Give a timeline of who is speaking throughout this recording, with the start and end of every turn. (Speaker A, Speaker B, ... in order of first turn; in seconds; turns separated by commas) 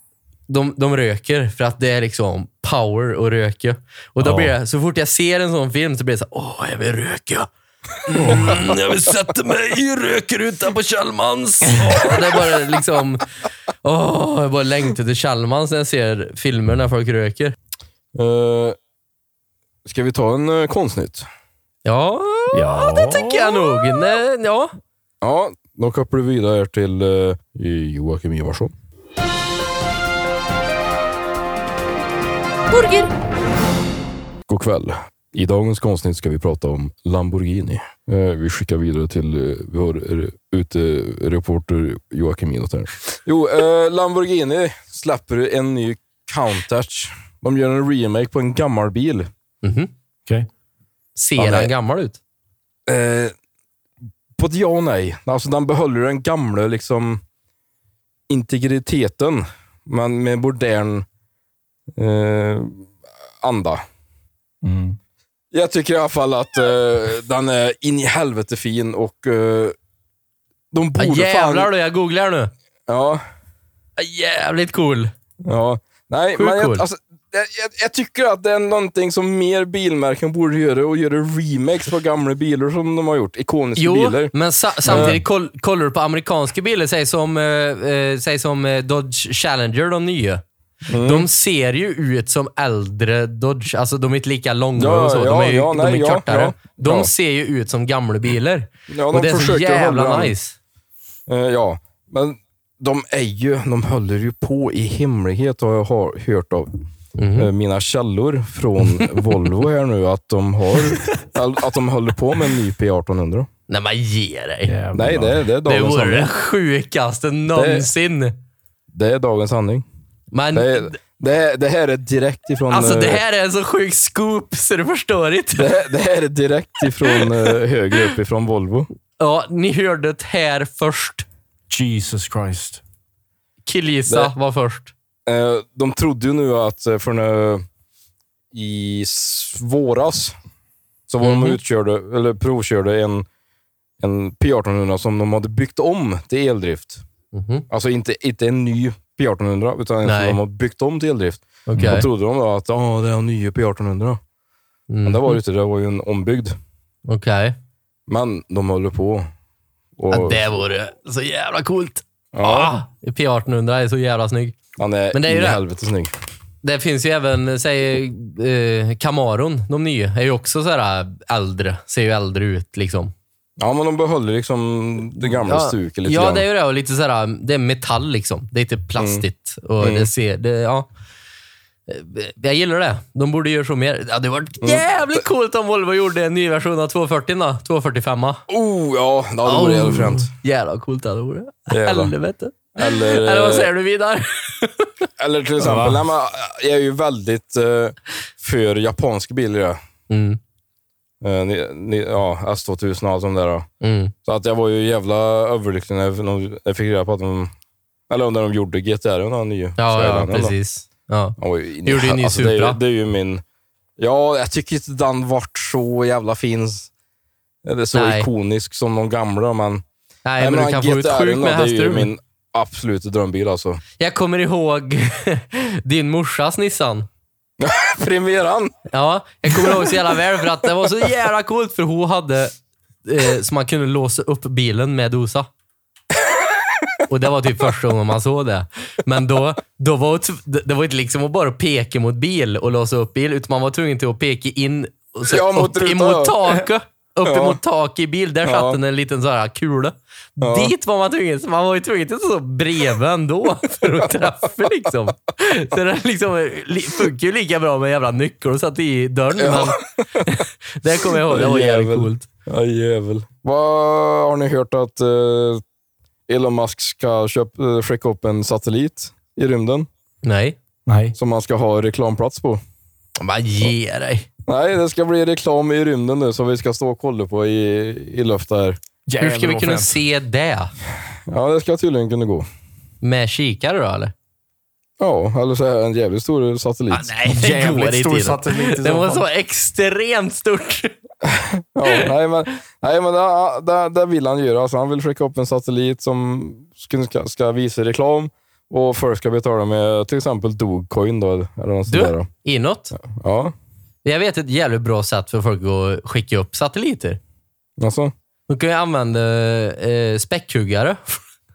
Speaker A: 0.5-7.5, Speaker B: 4.2-4.5, Speaker A: 8.1-13.2, Speaker B: 8.2-8.5, Speaker A: 13.8-17.6, Speaker C: 18.1-18.8, Speaker C: 19.9-21.3, Speaker A: 21.9-24.7, Speaker B: 22.5-24.0, Speaker C: 25.2-28.7, Speaker A: 32.7-33.1, Speaker C: 34.5-49.3, Speaker A: 49.6-49.9, Speaker A: 51.2-52.2, Speaker C: 51.4-51.7, Speaker C: 52.9-53.3, Speaker C: 54.4-57.2, Speaker C: 58.3-61.1, Speaker C: 62.0-62.9, Speaker C: 63.4-63.8, Speaker B: 64.6-65.0, Speaker C: 65.5-69.8, Speaker C: 70.7-71.7, Speaker A: 71.0-72.5, Speaker C: 72.9-73.2, Speaker A: 74.0-75.1, Speaker C: 75.5-84.3, Speaker A: 76.4-76.8, Speaker A: 83.8-90.4, Speaker C: 84.8-85.2, Speaker B: 84.9-85.2, Speaker C: 90.9-91.3, Speaker A: 91.0-100.6, Speaker C: 94.8-97.1, Speaker C: 98.9-100.3, Speaker C: 101.3-106.7, Speaker A: 107.2-107.5, Speaker C: 107.4-113.5, Speaker A: 113.7-114.7, Speaker B: 114.7-115.5, Speaker C: 114.9-116.3, Speaker A: 115.7-118.3, Speaker C: 117.5-117.9, Speaker C: 118.9-119.8, Speaker A: 120.3-121.0, Speaker C: 120.5-123.2, Speaker A: 122.7-125.7, Speaker C: 125.6-128.9, Speaker A: 129.2-131.2, Speaker B: 131.7-132.8, Speaker A: 133.7-134.9, Speaker C: 134.1-134.3, Speaker C: 135.3-137.7, Speaker C: 138.5-140.3, Speaker C: 141.1-143.3, Speaker A: 141.2-141.6, Speaker C: 144.0-147.0, Speaker A: 147.3-147.7, Speaker C: 147.7-154.2, Speaker A: 150.1-150.4, Speaker A: 151.7-152.1, Speaker B: 151.8-152.0, Speaker A: 154.9-155.4, Speaker C: 155.0-156.6, Speaker A: 157.1-157.6, Speaker C: 158.1-159.3, Speaker C: 160.0-160.5, Speaker A: 160.1-164.6, Speaker C: 162.3-162.7, Speaker C: 164.8-166.1, Speaker A: 165.1-165.6, Speaker A: 166.6-173.1, Speaker C: 173.6-176.4, Speaker A: 175.2-180.9, Speaker C: 179.0-179.2, Speaker C: 179.8-180.1, Speaker A: 181.9-188.4, Speaker C: 184.6-185.2, Speaker C: 188.5-190.3, Speaker A: 189.4-194.9, Speaker C: 191.7-192.1, Speaker C: 192.8-193.7, Speaker C: 195.2-199.8, Speaker B: 195.6-196.0, Speaker A: 200.1-200.4, Speaker C: 201.2-203.7, Speaker A: 203.8-204.1, Speaker C: 204.2-207.5, Speaker C: 208.1-210.6, Speaker A: 209.8-212.8, Speaker C: 211.4-213.4, Speaker C: 214.0-216.9, Speaker C: 217.7-219.8, Speaker A: 217.9-218.3, Speaker A: 220.2-222.1, Speaker C: 220.4-223.8, Speaker A: 224.0-227.1, Speaker C: 227.6-228.8, Speaker A: 228.9-232.5, Speaker A: 233.1-235.5, Speaker A: 237.1-262.2, Speaker C: 245.2-246.6, Speaker C: 247.2-247.6, Speaker C: 248.4-248.8, Speaker C: 250.4-250.7, Speaker C: 253.8-254.9, Speaker C: 259.4-260.4, Speaker C: 261.2-265.6, Speaker C: 266.3-269.9, Speaker A: 270.2-270.6, Speaker B: 270.9-271.1, Speaker C: 271.2-272.6, Speaker A: 273.2-274.3, Speaker C: 274.5-278.8, Speaker B: 279.1-280.0, Speaker A: 279.2-280.7, Speaker C: 281.3-282.5, Speaker A: 283.0-284.1, Speaker C: 285.0-287.1, Speaker A: 286.9-290.9, Speaker B: 287.2-289.2, Speaker C: 291.2-302.3, Speaker A: 301.9-302.9, Speaker C: 303.0-303.5, Speaker A: 304.0-307.2, Speaker C: 307.8-308.1, Speaker A: 308.5-311.2